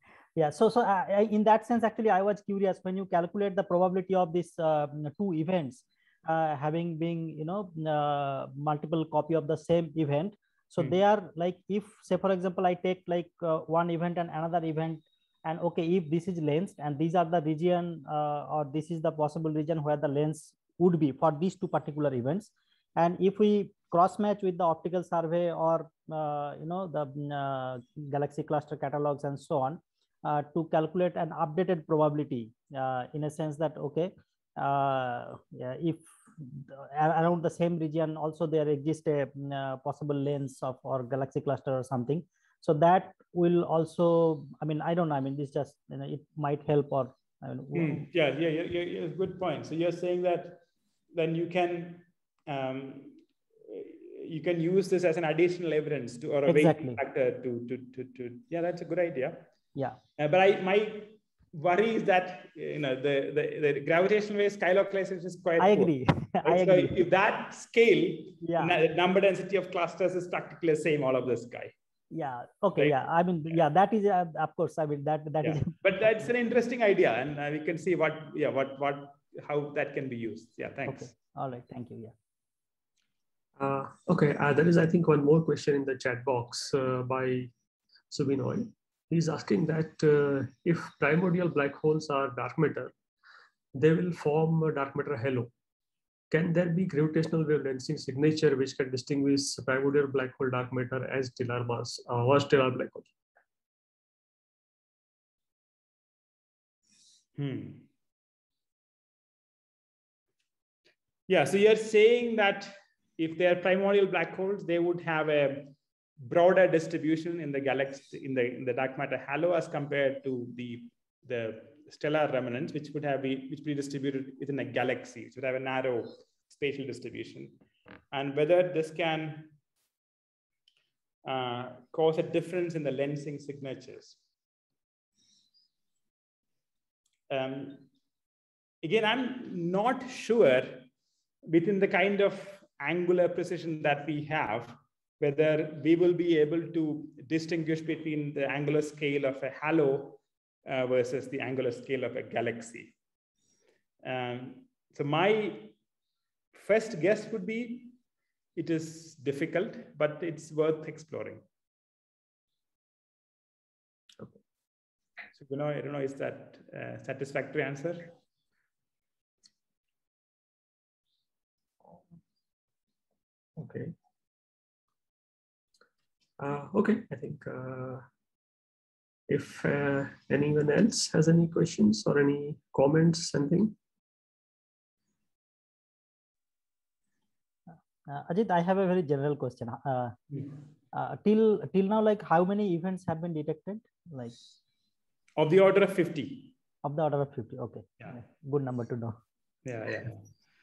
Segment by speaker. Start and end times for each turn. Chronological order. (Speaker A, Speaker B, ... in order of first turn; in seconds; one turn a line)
Speaker A: 0.4-48.0
Speaker B: 47.7-50.6
Speaker B: 51.1-53.2
Speaker B: 53.7-59.5
Speaker A: 56.5-57.0
Speaker B: 60.2-65.9
Speaker A: 65.6-67.0
Speaker B: 66.4-71.7
Speaker A: 68.4-68.8
Speaker A: 72.1-75.8
Speaker B: 75.4-81.1
Speaker A: 80.9-82.1
Speaker C: 83.6-87.5
Speaker C: 88.1-92.9
Speaker C: 93.7-95.5
Speaker C: 96.3-103.1
Speaker B: 107.4-107.9
Speaker B: 111.3-127.6
Speaker B: 128.1-129.5
Speaker B: 131.2-134.2
Speaker B: 137.3-137.9
Speaker B: 138.8-140.9
Speaker B: 141.5-152.9
Speaker B: 154.0-155.8
Speaker B: 156.5-158.0
Speaker B: 158.6-161.4
Speaker B: 165.4-168.1
Speaker C: 173.6-173.9
Speaker C: 176.4-178.1
Speaker C: 179.3-183.8
Speaker A: 188.1-190.4
Speaker A: 190.9-194.4
Speaker B: 195.4-196.5
Speaker A: 196.8-199.2
Speaker B: 199.7-200.2